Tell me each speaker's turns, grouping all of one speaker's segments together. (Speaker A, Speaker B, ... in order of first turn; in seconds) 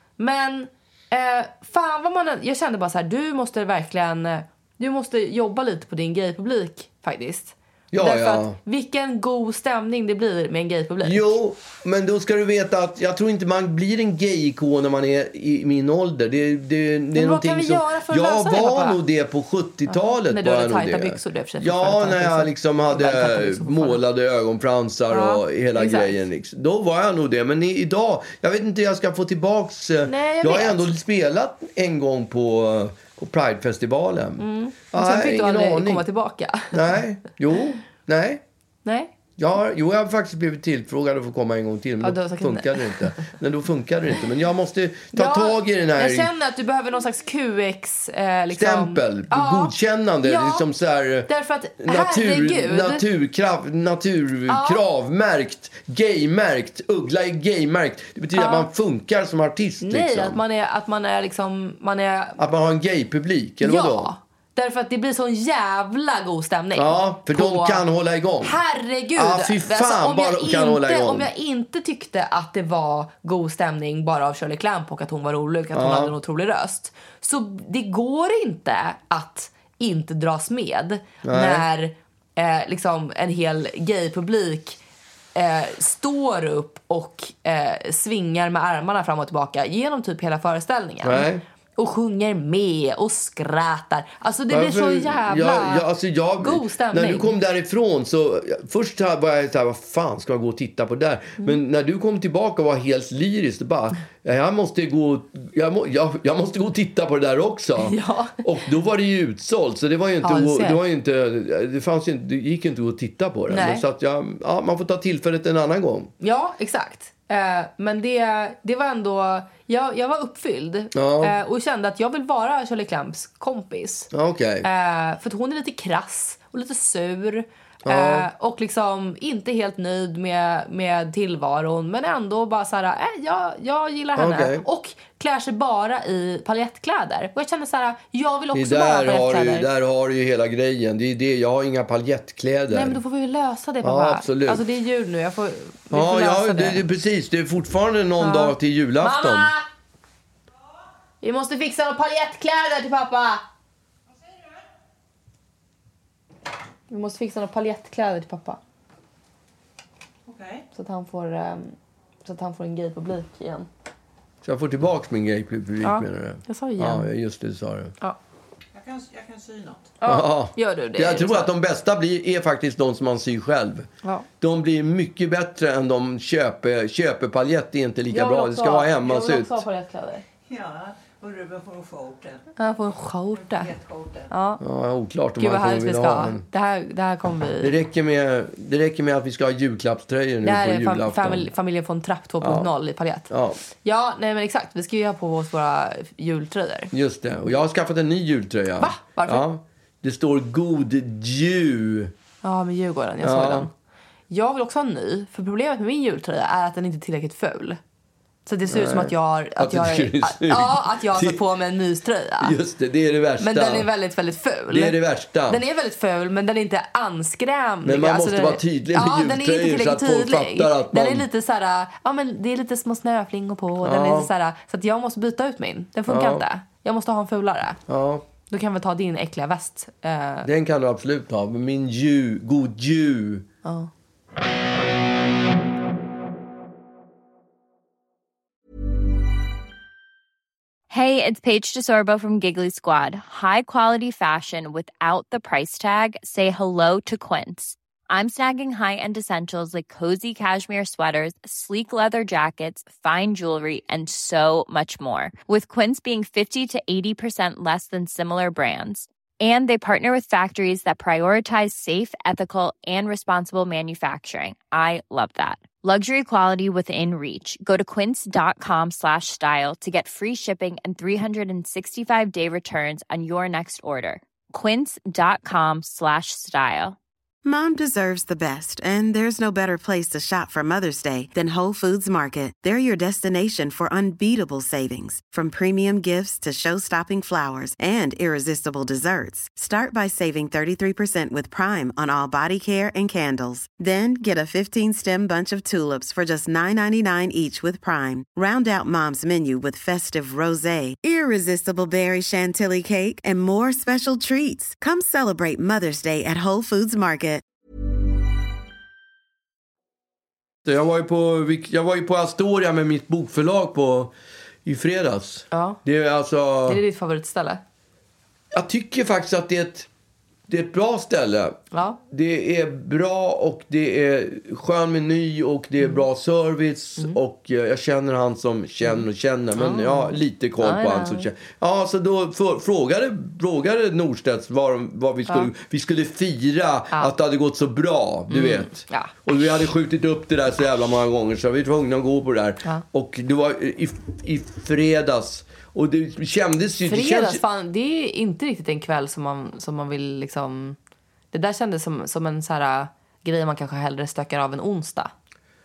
Speaker A: 0.2-11.3, 17.1-19.0, 19.9-24.0, 25.1-26.1, 30.1-30.9, 34.4-37.0, 38.9-39.1, 42.0-43.3, 45.1-50.7, 51.3-53.0, 54.5-54.8, 58.3-58.7, 59.8-62.4, 63.6-67.8, 68.4-84.8, 85.3-95.9, 96.4-97.3, 107.8-108.3, 110.2-110.8, 113.5-113.8, 116.2-124.1, 124.6-139.7, 142.7-146.8, 148.2-149.7, 151.2-153.4, 156.9-158.6, 160.7-163.7, 165.8-167.1, 170.0-171.5, 178.1-180.2, 182.6-183.7, 184.3-184.6, 185.4-187.7, 190.4-193.3, 193.8-196.9, 198.8-199.5, 202.4-203.7, 204.3-207.8, 208.5-212.6, 213.4-215.0, 215.5-227.8, 228.5-230.5, 233.6-233.9, 315.5-315.8, 316.7-317.6, 321.7-322.0, 329.6-331.3, 338.3-339.6, 346.9-350.8, 351.3-355.1
Speaker B: 7.9-8.6, 11.0-36.0, 36.7-38.4, 39.4-46.3, 48.5-51.3, 51.8-60.4, 62.4-64.1, 66.8-68.6, 69.2-71.3, 75.7-76.1, 81.2-81.7, 91.0-91.4, 94.5-116.1, 120.9-121.4, 124.1-124.7, 127.8-128.3, 134.2-134.7, 138.5-143.0, 143.8-144.6, 145.9-149.5, 164.4-167.9, 170.1-173.9, 174.4-179.6, 184.6-186.4, 187.6-191.5, 192.4-192.7, 193.3-193.6, 196.9-202.1, 203.2-203.7, 208.7-211.4, 212.4-213.9, 214.7-215.6, 217.8-221.3, 223.8-224.3, 226.1-226.4, 227.9-228.3, 230.4-233.5, 310.6-314.1, 314.6-316.8, 318.5-319.9, 320.5-347.4
Speaker C: 160.3-160.6, 168.7-170.0, 180.5-182.4, 183.4-184.3
Speaker D: 240.9-277.0
Speaker E: 277.4-307.4